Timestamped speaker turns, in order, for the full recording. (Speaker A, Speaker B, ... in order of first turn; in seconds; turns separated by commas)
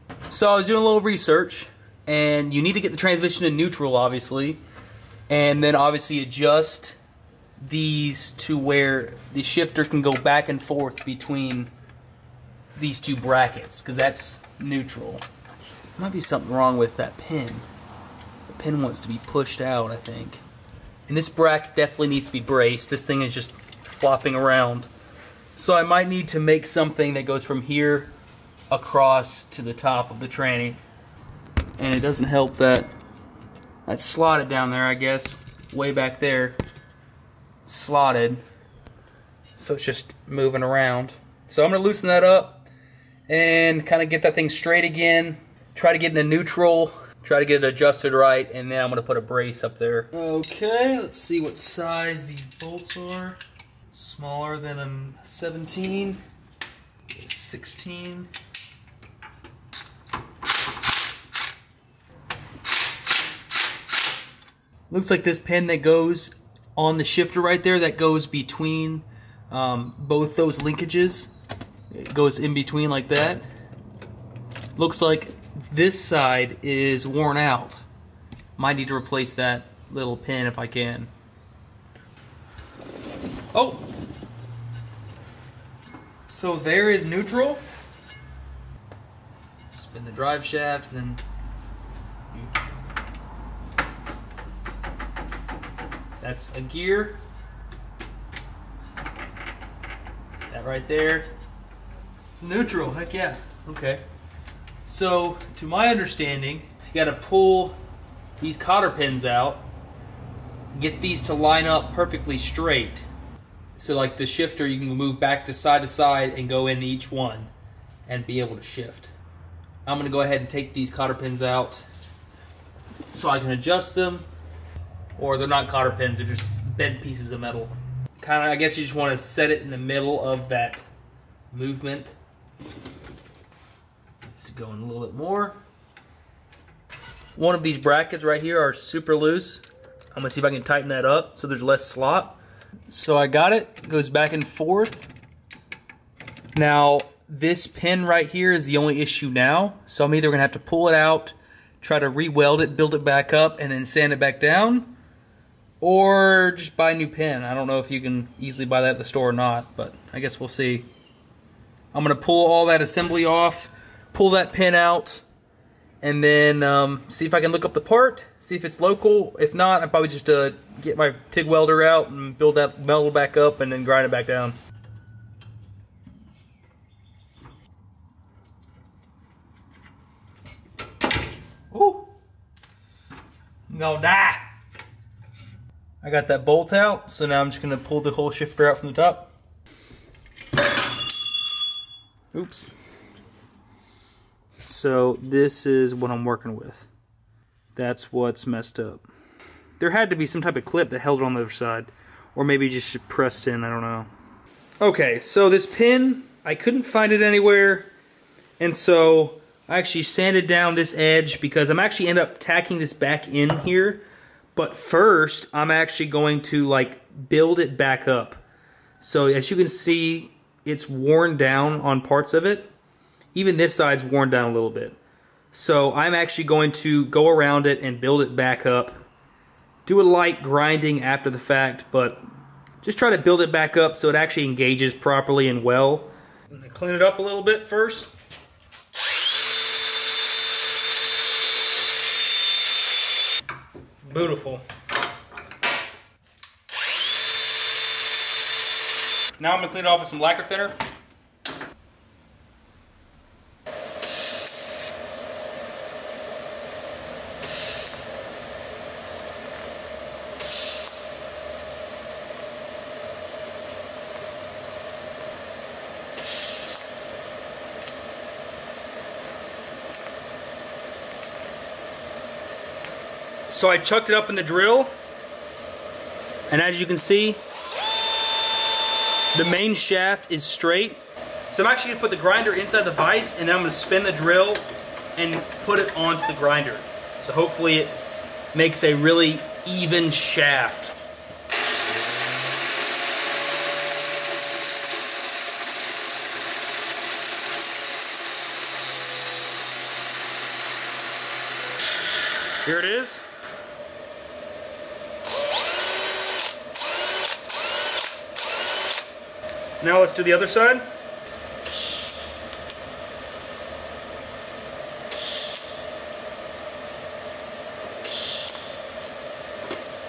Speaker A: 0.3-4.6, Speaker A: 5.3-7.0, Speaker A: 7.6-11.7, Speaker A: 12.8-15.2, Speaker A: 15.9-17.7, Speaker A: 18.5-20.4, Speaker A: 21.1-24.9, Speaker A: 25.5-28.1, Speaker A: 28.7-30.8, Speaker A: 31.8-32.9, Speaker A: 33.9-36.6, Speaker A: 37.6-38.4, Speaker A: 39.6-42.6, Speaker A: 43.3-53.4, Speaker A: 53.9-56.2, Speaker A: 57.1-58.3, Speaker A: 64.9-71.3, Speaker A: 71.9-73.4, Speaker A: 74.8-77.8, Speaker A: 78.6-81.1, Speaker A: 83.5-83.9, Speaker A: 86.3-87.6, Speaker A: 89.7-91.2, Speaker A: 96.2-97.2, Speaker A: 100.5-101.3, Speaker A: 102.4-104.0, Speaker A: 104.8-107.8, Speaker A: 108.4-109.7, Speaker A: 110.7-113.1, Speaker A: 113.8-117.5, Speaker A: 118.1-119.1, Speaker A: 119.8-121.8, Speaker A: 123.1-124.3, Speaker A: 125.2-130.8, Speaker A: 131.5-132.1, Speaker A: 134.4-135.6, Speaker A: 137.3-145.1, Speaker A: 146.5-154.9, Speaker A: 155.8-160.9, Speaker A: 161.9-165.2, Speaker A: 166.0-174.6, Speaker A: 181.7-182.1, Speaker A: 183.7-184.5, Speaker A: 186.0-189.3, Speaker A: 192.3-192.7, Speaker A: 194.6-196.9, Speaker A: 197.8-199.0, Speaker A: 199.8-204.1, Speaker A: 204.8-207.9, Speaker A: 208.6-214.0, Speaker A: 214.5-218.4, Speaker A: 219.0-222.7, Speaker A: 223.3-225.0, Speaker A: 225.5-229.0, Speaker A: 229.8-232.2, Speaker A: 232.8-238.1, Speaker A: 244.0-244.6, Speaker A: 249.4-250.8, Speaker A: 273.5-274.9, Speaker A: 276.5-277.4, Speaker A: 279.3-284.6, Speaker A: 285.1-287.9, Speaker A: 288.5-290.9, Speaker A: 302.6-303.2, Speaker A: 309.8-310.8